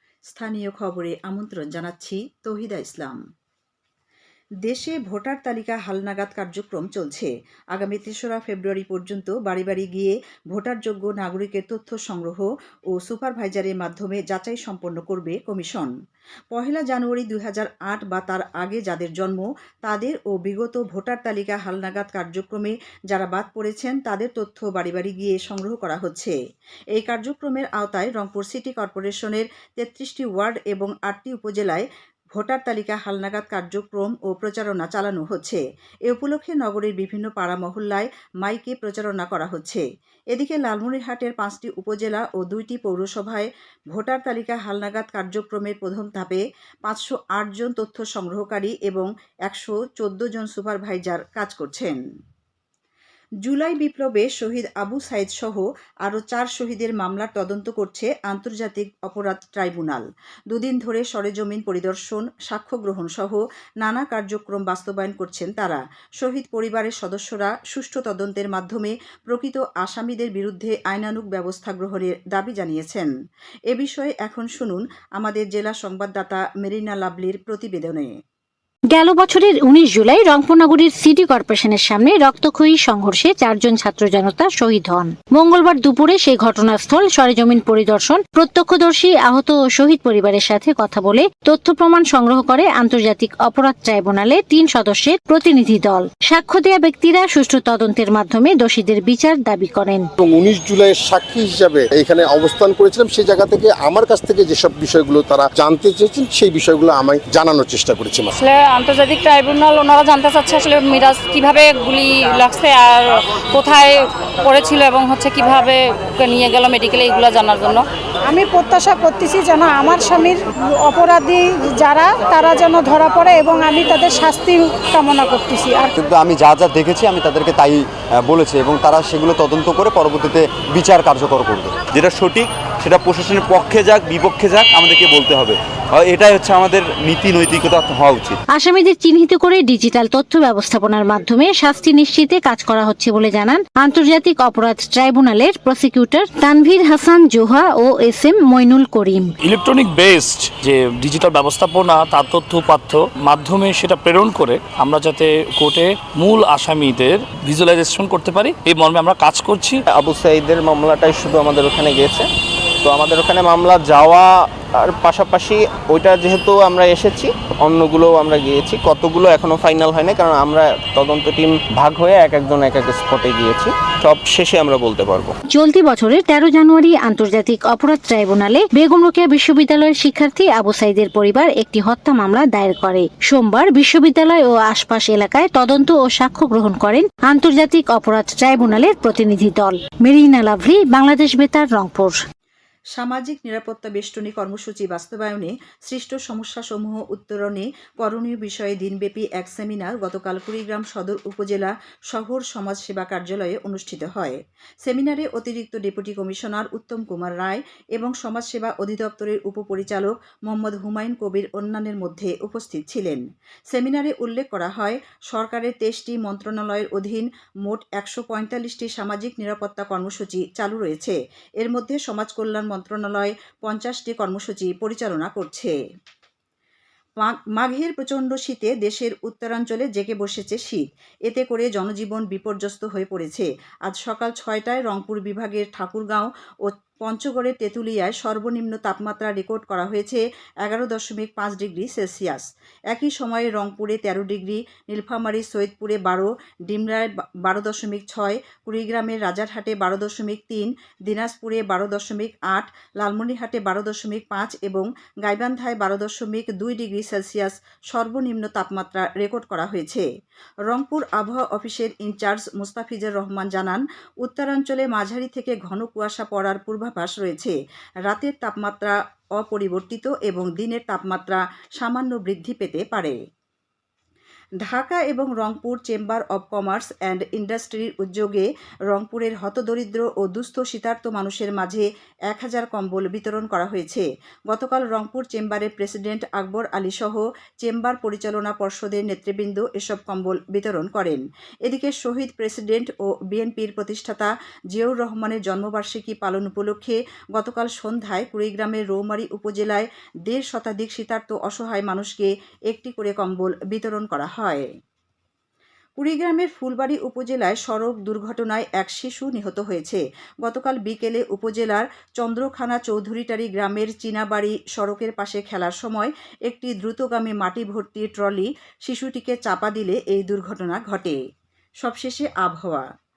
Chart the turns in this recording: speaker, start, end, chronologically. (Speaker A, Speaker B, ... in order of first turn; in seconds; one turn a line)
Speaker A: 0.3-3.2
Speaker A: 4.7-15.9
Speaker A: 16.5-26.4
Speaker A: 26.9-52.0
Speaker A: 53.4-73.1
Speaker A: 73.7-78.1
Speaker B: 78.9-100.1
Speaker C: 100.2-108.4
Speaker D: 108.4-117.8
Speaker E: 118.2-125.9
Speaker F: 126.0-131.8
Speaker G: 131.9-138.4
Speaker B: 138.6-149.3
Speaker H: 149.4-159.8
Speaker I: 159.9-162.3
Speaker I: 162.8-175.3
Speaker B: 175.6-192.2
Speaker A: 192.9-225.8
Speaker A: 227.2-260.1
Speaker A: 260.7-267.6
Speaker A: 268.1-273.2
Speaker A: 274.6-304.7
Speaker A: 306.0-321.2
Speaker A: 321.8-322.9